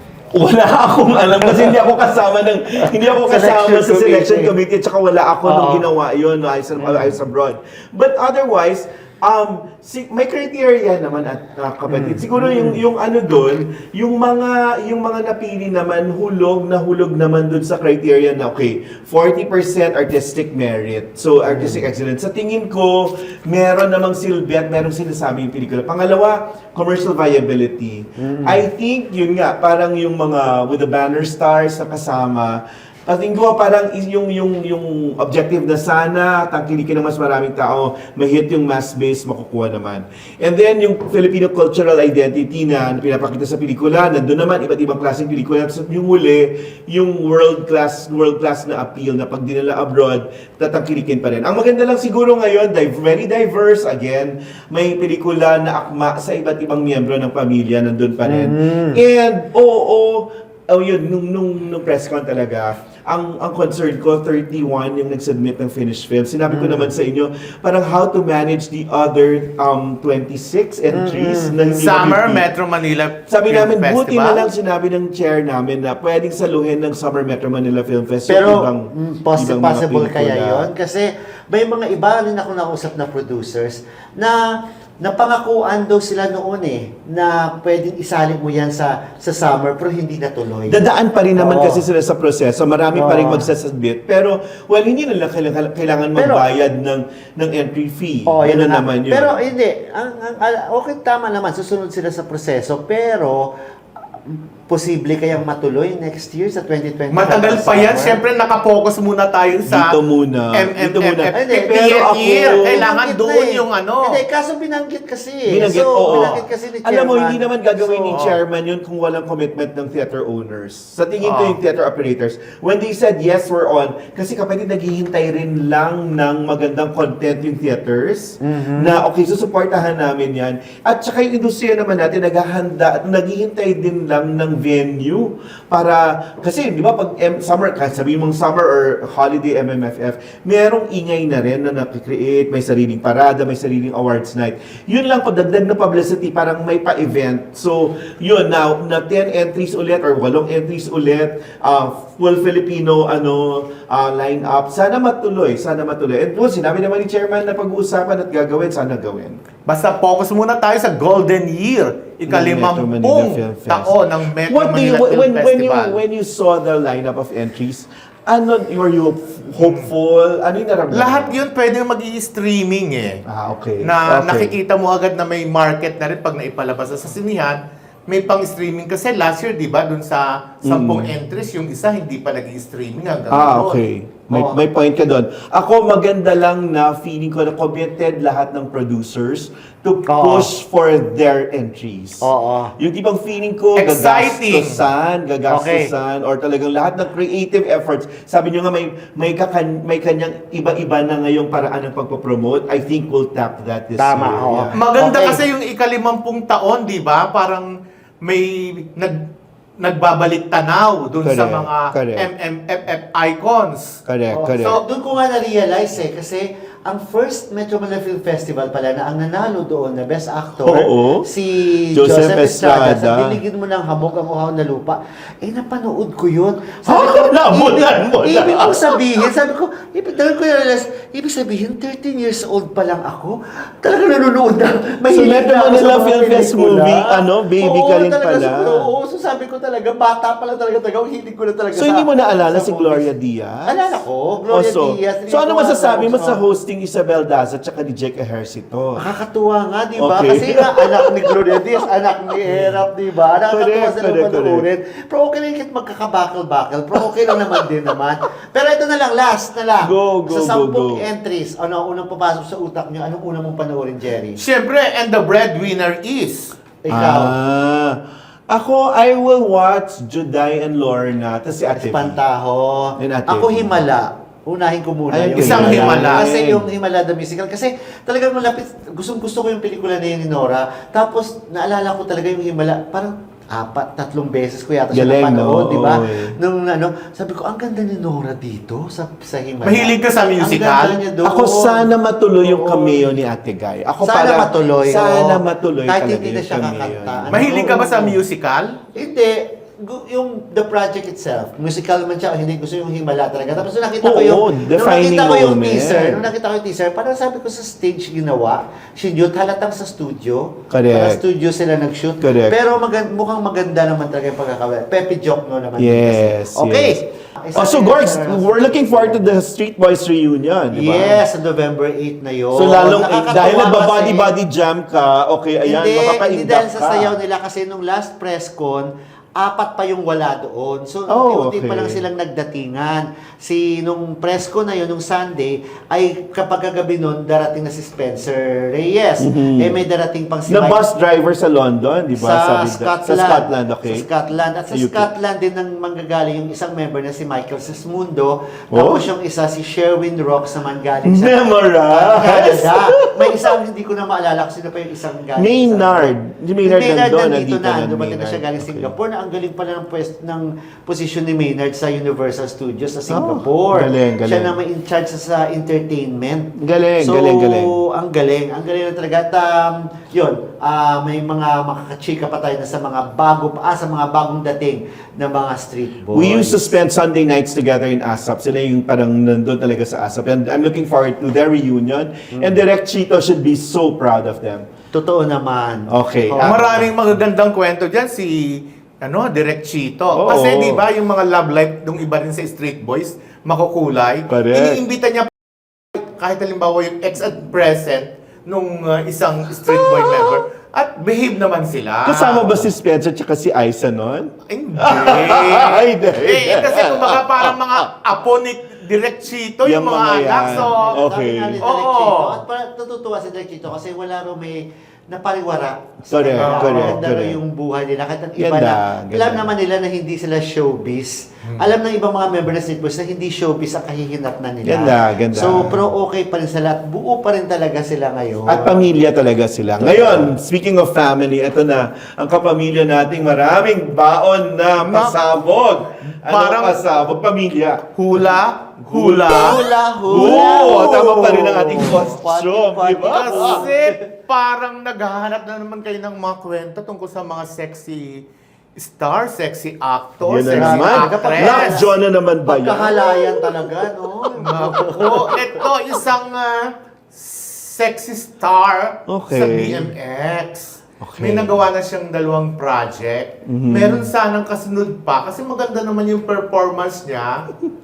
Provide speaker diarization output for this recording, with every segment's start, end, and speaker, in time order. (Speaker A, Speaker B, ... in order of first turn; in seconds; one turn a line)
Speaker A: 0.3-72.5
Speaker B: 1.4-1.7
Speaker B: 2.8-4.5
Speaker B: 5.4-5.9
Speaker B: 6.8-7.2
Speaker B: 11.9-12.8
Speaker B: 21.5-21.8
Speaker B: 28.2-28.6
Speaker B: 58.2-59.0
Speaker B: 66.5-66.9
Speaker B: 70.9-71.9
Speaker C: 71.8-74.5
Speaker A: 73.3-80.7
Speaker B: 78.3-84.4
Speaker B: 85.0-90.8
Speaker A: 90.7-99.3
Speaker B: 91.4-91.8
Speaker B: 92.9-93.5
Speaker B: 96.2-96.4
Speaker B: 98.3-103.5
Speaker B: 104.2-108.2
Speaker C: 107.1-109.9
Speaker A: 109.7-112.9
Speaker C: 110.5-114.2
Speaker B: 111.3-118.2
Speaker A: 115.5-159.4
Speaker C: 118.1-118.4
Speaker C: 121.2-121.6
Speaker B: 128.4-129.0
Speaker C: 159.7-166.0
Speaker A: 162.3-171.3
Speaker C: 169.6-169.9
Speaker C: 170.9-173.2
Speaker A: 173.3-174.6
Speaker C: 173.8-183.8
Speaker A: 180.6-181.1
Speaker A: 183.3-192.2
Speaker B: 184.3-184.6
Speaker B: 190.1-190.5
Speaker B: 192.2-192.7
Speaker A: 192.8-204.8
Speaker C: 193.8-194.8
Speaker B: 195.5-195.9
Speaker B: 204.0-205.4
Speaker C: 204.7-207.7
Speaker C: 208.2-209.2
Speaker C: 209.8-214.0
Speaker A: 211.2-212.3
Speaker A: 214.1-214.8
Speaker B: 214.3-243.1
Speaker A: 220.6-221.3
Speaker A: 221.9-223.4
Speaker A: 226.8-229.3
Speaker A: 235.1-238.9
Speaker A: 241.7-243.9
Speaker B: 243.7-246.4
Speaker A: 244.5-249.0
Speaker B: 249.0-264.4
Speaker A: 250.0-251.3
Speaker A: 252.5-252.8
Speaker A: 253.5-254.7
Speaker A: 259.8-261.0
Speaker C: 264.4-266.5
Speaker B: 266.8-267.3
Speaker A: 266.9-268.0
Speaker A: 268.5-272.2
Speaker B: 271.7-291.9
Speaker A: 273.0-273.8
Speaker A: 275.1-276.6
Speaker C: 275.4-276.2
Speaker A: 284.9-286.3
Speaker C: 289.6-291.0
Speaker A: 291.2-297.7
Speaker B: 292.4-293.1
Speaker B: 294.0-298.2
Speaker C: 297.3-298.8
Speaker B: 298.9-319.3
Speaker A: 304.0-306.3
Speaker A: 310.7-311.2
Speaker A: 312.2-312.6
Speaker A: 315.8-317.0
Speaker A: 317.5-321.2
Speaker B: 320.7-324.3
Speaker A: 322.5-327.2
Speaker B: 325.6-340.8
Speaker A: 331.1-332.0
Speaker A: 339.2-339.8
Speaker A: 340.5-344.0
Speaker B: 342.2-376.7
Speaker A: 344.7-345.1
Speaker A: 348.7-349.1
Speaker A: 351.0-353.5
Speaker A: 355.4-358.9
Speaker A: 363.1-364.6
Speaker A: 366.6-367.7
Speaker A: 376.1-384.6
Speaker B: 382.3-382.6
Speaker B: 384.9-386.9
Speaker A: 385.9-386.6
Speaker C: 386.4-388.4
Speaker C: 389.0-395.3
Speaker A: 390.1-390.8
Speaker A: 394.3-394.8
Speaker C: 395.8-402.6
Speaker A: 399.6-400.4
Speaker A: 402.0-407.9
Speaker C: 404.5-410.9
Speaker A: 409.6-411.6
Speaker B: 410.4-428.9
Speaker C: 411.6-412.4
Speaker A: 416.1-417.4
Speaker C: 416.4-416.9
Speaker A: 418.4-419.5
Speaker C: 421.4-421.7
Speaker A: 424.6-425.9
Speaker A: 428.5-437.9
Speaker B: 429.8-430.3
Speaker C: 434.8-435.4
Speaker C: 436.2-436.8
Speaker C: 437.9-439.6
Speaker A: 438.9-443.7
Speaker B: 439.3-443.9
Speaker C: 440.1-440.5
Speaker C: 443.0-451.8
Speaker A: 450.2-453.7
Speaker B: 450.5-451.9
Speaker B: 452.4-455.4
Speaker C: 454.4-467.5
Speaker A: 459.1-459.9
Speaker A: 461.0-461.6
Speaker A: 463.4-464.1